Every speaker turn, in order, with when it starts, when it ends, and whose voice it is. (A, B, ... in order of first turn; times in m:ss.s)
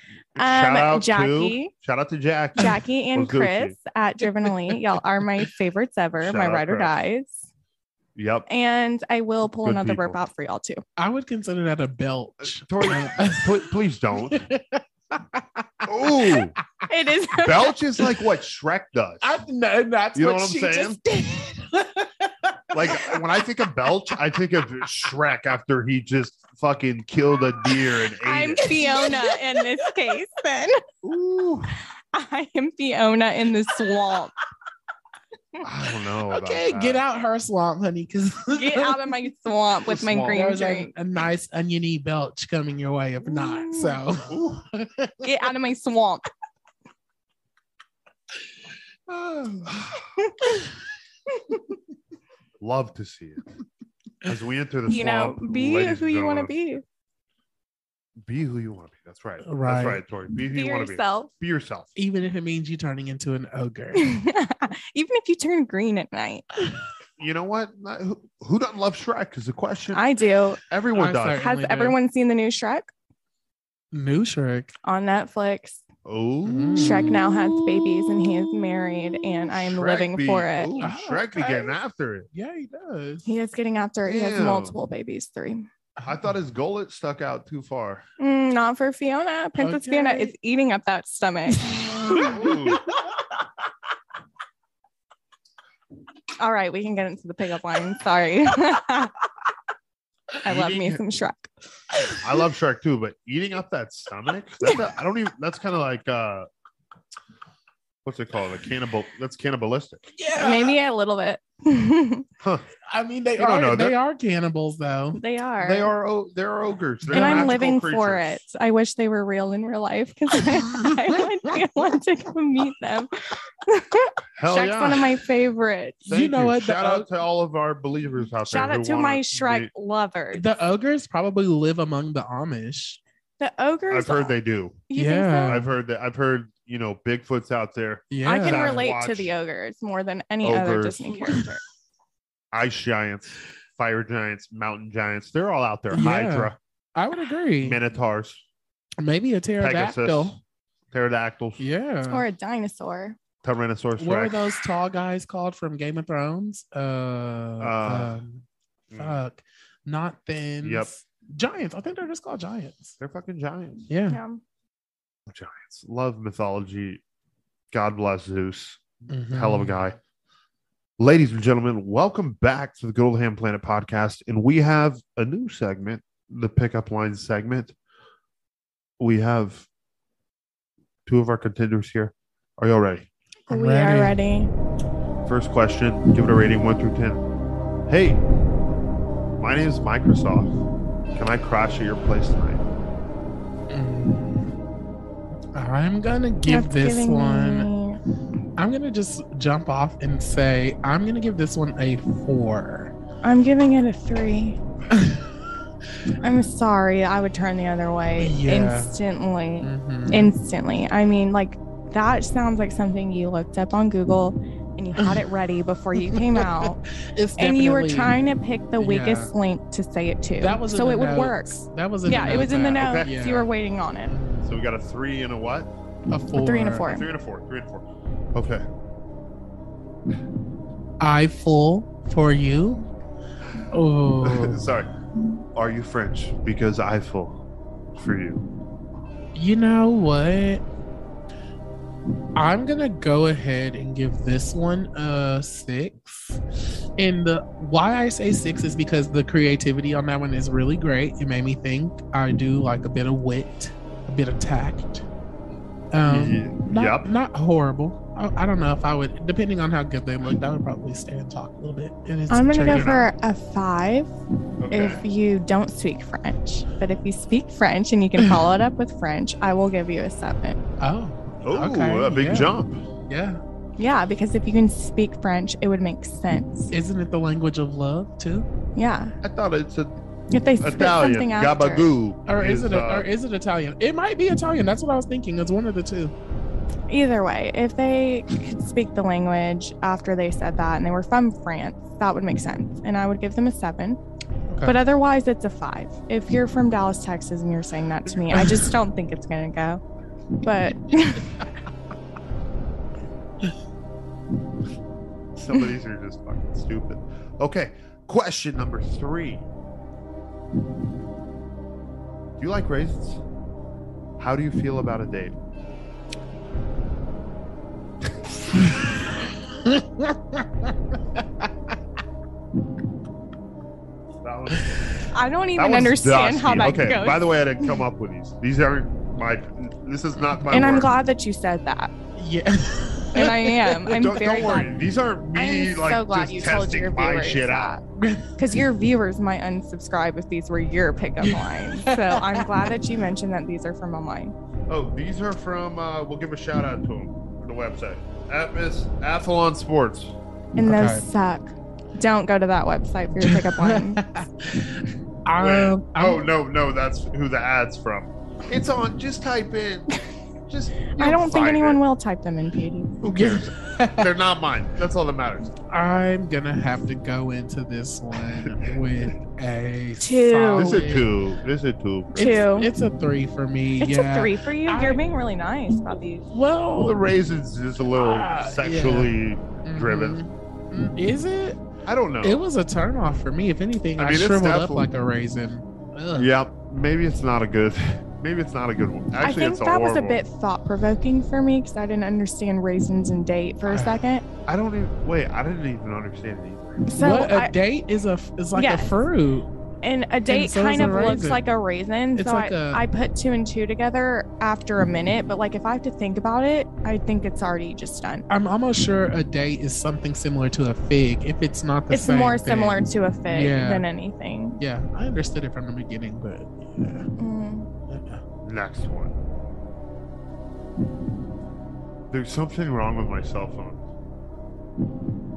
0:00.4-0:03.8 A
0:00.4-0:01.7 B
0:02.6-0:07.4 B
0:06.2-0:07.0 A
0:08.2-0:08.5 A
0:08.5-0:10.8 B
0:09.6-0:10.2 A
0:11.0-0:13.7 C
0:12.4-0:14.4 A
0:14.3-0:15.9 C
0:15.8-0:16.6 A
0:16.9-0:17.8 B
0:17.3-0:19.4 A
0:19.2-0:23.2 C
0:20.1-0:21.0 A
0:22.7-0:29.0 A
0:28.2-0:30.8 B
0:31.0-0:31.8 A
0:32.1-0:34.3 B
0:35.6-0:37.0 A
0:36.3-0:39.0 C
0:38.5-0:40.9 B
0:39.9-0:40.5 A
0:40.3-0:45.2 C
0:43.3-0:44.0 B
0:44.3-0:44.6 A
0:45.2-0:46.3 B
0:49.1-0:50.1 A
0:52.6-0:53.4 A
0:54.2-0:56.5 A
0:54.9-0:56.8 B
0:58.2-1:01.9 A
0:59.4-1:00.0 C
1:00.5-1:01.3 B
1:02.0-1:04.1 C
1:04.0-1:06.6 B
1:07.2-1:10.1 A
1:09.9-1:10.6 B
1:10.7-1:11.5 A
1:11.0-1:12.0 C
1:11.4-1:12.9 B
1:13.9-1:14.7 C
1:14.8-1:15.8 B
1:16.0-1:17.2 A
1:16.5-1:18.5 C
1:16.8-1:20.7 B
1:19.5-1:22.3 A
1:20.8-1:21.8 C
1:22.3-1:23.3 C
1:23.3-1:25.7 B
1:24.0-1:24.8 A
1:26.0-1:26.3 C
1:26.0-1:28.0 A
1:28.2-1:32.3 B
1:29.6-1:30.3 C
1:31.6-1:32.6 C
1:32.2-1:32.8 A
1:36.4-1:39.1 B
1:40.4-1:41.5 B
1:40.4-1:41.0 A
1:42.2-1:46.5 A
1:48.0-1:50.1 A
1:50.2-1:50.8 C
1:50.4-1:52.2 B
1:52.4-1:52.6 A
1:52.9-1:55.2 C
1:53.4-1:54.0 A
1:55.2-1:55.9 B
1:55.6-1:58.4 A
1:57.1-1:57.5 C
1:57.1-2:03.1 B
2:03.6-2:06.0 B
2:04.4-2:05.1 A
2:06.1-2:07.1 C
2:06.1-2:09.7 A
2:08.5-2:10.5 B
2:10.3-2:13.0 C
2:13.4-2:14.4 B
2:13.9-2:14.8 A
2:14.9-2:15.6 B
2:14.9-2:15.7 C
2:15.5-2:19.3 A
2:18.1-2:18.8 C
2:18.2-2:21.6 B
2:20.4-2:21.2 A
2:22.5-2:26.6 A
2:25.9-2:27.8 C
2:27.6-2:28.4 A
2:29.0-2:30.4 C
2:29.6-2:30.4 A
2:30.9-2:31.6 A
2:31.6-2:32.2 C
2:32.1-2:33.2 B
2:33.4-2:34.5 A
2:34.0-2:38.4 C
2:37.6-2:38.2 A
2:38.9-2:39.2 A
2:38.9-2:43.0 C
2:40.6-2:40.9 A
2:43.0-2:43.9 A
2:43.9-2:44.2 C
2:44.1-2:44.4 B
2:45.3-2:47.0 A
2:47.7-2:50.0 A
2:49.1-2:49.8 C
2:51.0-2:57.8 A
2:59.0-2:59.7 A
3:01.1-3:03.1 A
3:03.5-3:04.5 B
3:03.5-3:04.2 C
3:05.2-3:07.2 A
3:07.9-3:08.2 A
3:09.4-3:10.5 A
3:11.1-3:12.6 A
3:13.7-3:14.5 C
3:15.5-3:17.7 C
3:16.5-3:18.0 B
3:18.6-3:22.9 C
3:23.2-3:24.6 B
3:24.9-3:25.2 C
3:26.2-3:36.8 B
3:28.2-3:29.0 C
3:29.6-3:30.3 C
3:36.0-3:38.2 C
3:37.4-3:44.1 B
3:38.8-3:39.3 C
3:40.4-3:43.5 C
3:42.2-3:43.2 A
3:44.1-3:44.6 C
3:44.4-3:45.7 A
3:46.1-3:46.8 C
3:46.4-3:47.1 B
3:46.8-3:48.6 A
3:51.0-3:52.8 C
3:53.7-3:54.6 C
3:54.2-3:54.9 A
3:55.5-3:57.4 A
3:57.9-3:58.4 A
3:59.4-4:00.6 C
4:02.4-4:06.4 C
4:07.0-4:15.0 C
4:15.9-4:22.9 C
4:16.1-4:17.1 A
4:22.3-4:24.1 B
4:22.6-4:23.1 A
4:24.6-4:25.0 A
4:24.7-4:30.6 B
4:30.8-4:33.4 C
4:31.4-4:32.8 A
4:33.8-4:36.7 B
4:36.7-4:38.5 C
4:38.8-4:39.2 B
4:39.2-4:39.9 A
4:40.3-4:41.9 B
4:40.6-4:43.1 A
4:42.3-4:46.1 C
4:46.9-4:54.0 B
4:54.5-4:54.8 C
4:54.6-4:59.8 B
5:00.4-5:01.4 B
5:05.4-5:09.4 A
5:12.4-5:13.2 A
5:14.2-5:15.4 A
5:19.6-5:20.7 C
5:24.2-5:30.9 A
5:25.1-5:27.5 B
5:30.3-5:30.8 C
5:30.5-5:31.9 B
5:32.2-5:34.0 C
5:33.1-5:34.7 B
5:33.9-5:37.8 A
5:35.4-5:37.8 B
5:38.0-5:38.3 C
5:38.4-5:44.3 B
5:41.2-5:42.7 C
5:44.7-5:50.2 A
5:50.6-5:54.2 B
5:50.6-5:51.0 C
5:53.2-5:56.2 C
5:55.4-5:59.9 A
6:00.5-6:01.8 A
6:00.9-6:03.0 B
6:03.0-6:05.5 A
6:03.1-6:04.1 C
6:05.7-6:11.1 C
6:08.4-6:08.7 A
6:10.0-6:10.8 B
6:10.6-6:12.3 A
6:12.2-6:12.7 B
6:12.2-6:15.0 C
6:13.8-6:16.3 B
6:16.3-6:17.0 C
6:16.8-6:20.2 A
6:18.0-6:19.1 C
6:19.6-6:21.6 C
6:21.9-6:22.4 A
6:22.2-6:26.3 C
6:24.0-6:24.9 A
6:26.2-6:30.2 A
6:29.2-6:34.2 B
6:33.7-6:34.0 C
6:34.5-6:36.8 A
6:36.9-6:37.5 B
6:37.0-6:39.5 C
6:38.5-6:39.0 B
6:39.8-6:48.2 B
6:40.3-6:41.4 C
6:42.2-6:42.8 C
6:48.3-6:53.8 C
6:51.9-6:54.6 B
6:54.6-6:57.1 C
6:57.2-6:57.7 B
6:57.9-6:58.2 C
6:58.4-6:59.1 A
7:02.1-7:03.8 A